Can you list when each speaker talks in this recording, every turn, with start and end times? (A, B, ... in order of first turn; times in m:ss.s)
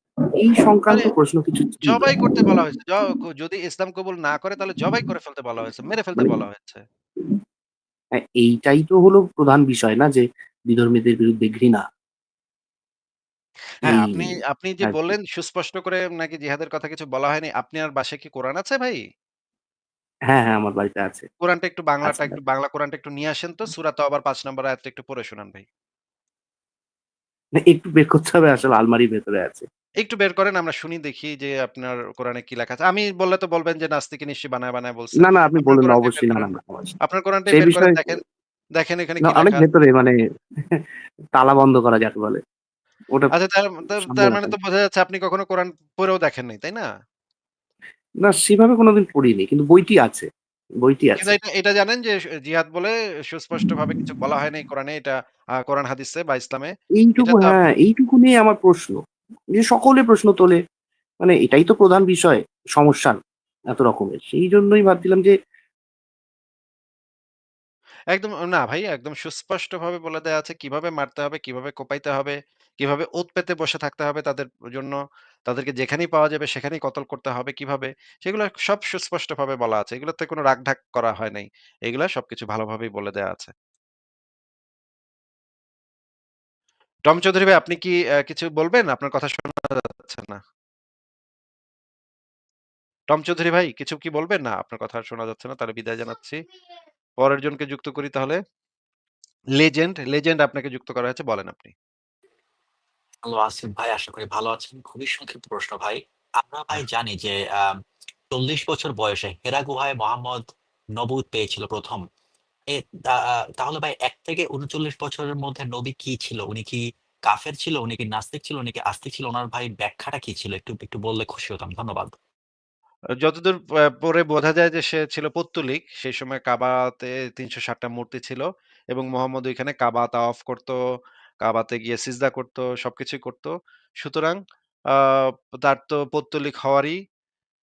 0:00.4-0:02.1 A
0:01.9-0:06.8 B
0:08.2-0:11.8 A
0:13.8-0:19.0 B
0:13.9-0:14.3 A
0:14.8-0:15.1 A
0:20.3-0:21.2 A
0:21.4-0:25.6 B
0:22.0-0:22.4 A
0:27.6-0:29.7 A
0:30.0-0:38.2 B
0:35.2-0:37.0 A
0:37.5-0:38.1 A
0:38.8-0:39.6 B
0:39.2-0:40.9 A
0:41.4-0:42.4 A
0:43.4-0:46.9 B
0:44.0-0:44.5 A
0:48.2-0:50.3 A
0:50.8-0:51.3 A
0:51.2-0:57.6 B
0:57.0-0:59.0 A
0:59.6-1:00.6 A
1:01.2-1:03.2 A
1:03.7-1:05.3 A
1:08.1-1:23.5 B
1:27.1-1:30.4 B
1:33.1-1:36.4 B
1:37.2-1:38.4 B
1:39.6-1:41.7 B
1:43.2-1:47.8 C
1:48.3-1:52.0 C
1:52.7-2:02.2 C
2:03.2-2:10.8 B
2:11.4-2:14.4 B
2:15.0-2:17.0 B